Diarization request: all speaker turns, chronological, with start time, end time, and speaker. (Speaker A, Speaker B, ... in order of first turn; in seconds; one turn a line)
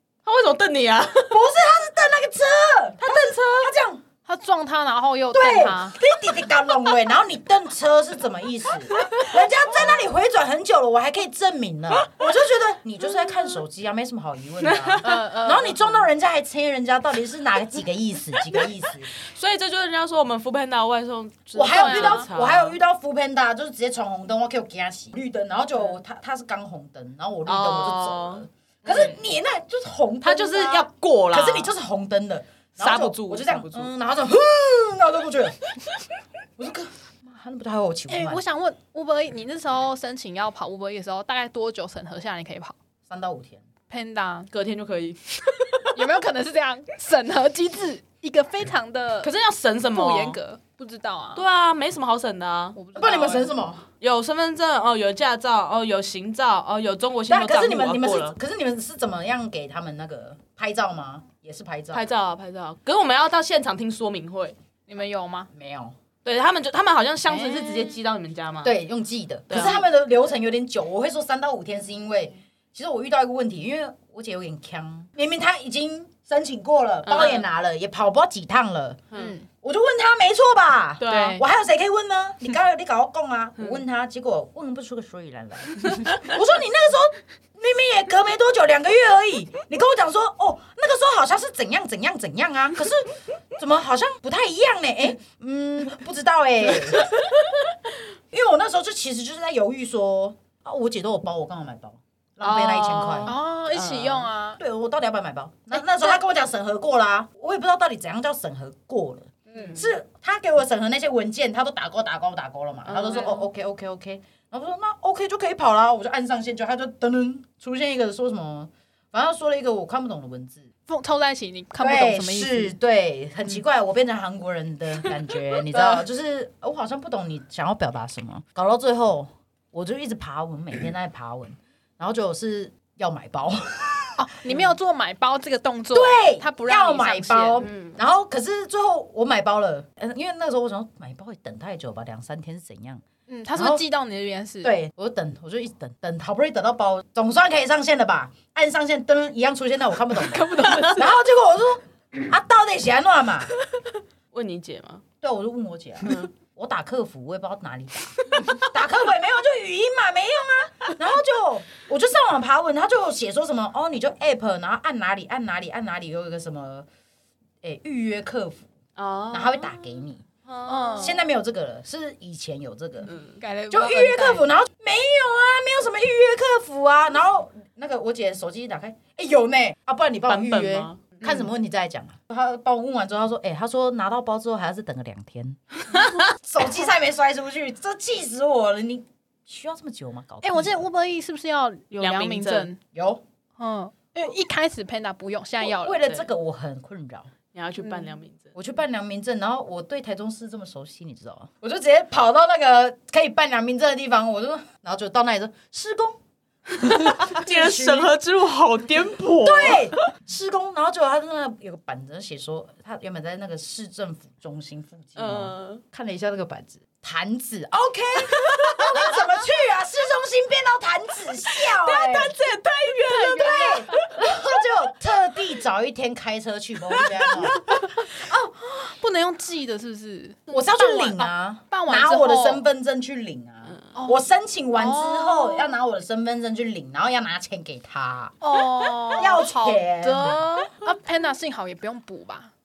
Speaker A: 0.2-1.4
Speaker B: 1.2-4.0
Speaker A: 3.0-3.8
Speaker C: 4.3-6.0
Speaker B: 5.3-19.1
Speaker A: 11.9-12.2
Speaker A: 14.6-15.2
Speaker C: 15.0-16.1
Speaker A: 18.4-18.6
Speaker A: 19.2-22.8
Speaker B: 21.6-35.6
Speaker C: 21.6-22.3
Speaker A: 27.5-29.1
Speaker C: 28.9-29.1
Speaker A: 30.2-31.7
Speaker A: 32.8-33.9
Speaker B: 36.6-38.4
Speaker C: 38.1-42.8
Speaker B: 43.1-43.6
Speaker C: 43.9-44.5
Speaker A: 44.5-46.2
Speaker C: 45.9-49.3
Speaker A: 49.2-50.4
Speaker C: 49.9-51.4
Speaker A: 51.4-52.8
Speaker C: 52.8-53.5
Speaker B: 53.0-53.9
Speaker A: 54.0-58.4
Speaker B: 57.3-62.1
Speaker A: 61.9-64.5
Speaker C: 64.9-65.5
Speaker B: 65.5-66.0
Speaker A: 66.2-68.7
Speaker C: 67.3-68.0
Speaker B: 68.6-79.0
Speaker A: 69.5-69.8
Speaker C: 69.5-69.8
Speaker A: 77.1-77.5
Speaker C: 79.1-79.5
Speaker B: 79.6-97.2
Speaker A: 81.0-81.4
Speaker C: 81.0-81.4
Speaker B: 98.3-103.4
Speaker A: 102.4-104.3
Speaker C: 103.3-104.6
Speaker B: 104.6-120.7
Speaker C: 105.7-106.2
Speaker C: 109.5-109.8
Speaker A: 109.5-109.9
Speaker A: 112.9-113.3
Speaker C: 112.9-113.5
Speaker C: 120.9-122.7
Speaker B: 121.8-134.6
Speaker C: 125.7-126.0
Speaker C: 134.2-137.7
Speaker B: 135.9-143.8
Speaker A: 137.6-138.0
Speaker C: 143.3-144.7
Speaker B: 144.6-153.5
Speaker C: 150.2-151.1
Speaker A: 154.3-155.0
Speaker B: 155.2-166.9
Speaker A: 156.0-156.3
Speaker B: 167.6-168.7
Speaker A: 169.0-171.2
Speaker B: 169.3-170.2
Speaker C: 170.7-171.2
Speaker B: 171.0-173.1
Speaker A: 173.1-173.4
Speaker C: 173.4-174.5
Speaker B: 173.7-185.6
Speaker A: 180.3-181.1
Speaker C: 181.2-181.5
Speaker B: 186.1-190.9
Speaker C: 190.4-192.8
Speaker A: 192.0-192.7
Speaker B: 192.9-193.2
Speaker C: 193.6-196.0
Speaker B: 195.6-197.3
Speaker A: 197.5-198.5
Speaker B: 198.6-206.2
Speaker A: 206.8-210.1
Speaker B: 206.8-208.1
Speaker B: 209.4-222.4
Speaker A: 215.2-215.8
Speaker A: 218.3-219.3
Speaker A: 221.4-224.3
Speaker C: 223.1-224.2
Speaker B: 223.1-227.6
Speaker A: 226.9-227.8
Speaker C: 227.6-232.7
Speaker B: 230.5-238.4
Speaker A: 233.7-233.9
Speaker C: 233.9-235.8
Speaker C: 238.4-242.5
Speaker B: 239.1-240.4
Speaker A: 240.2-240.8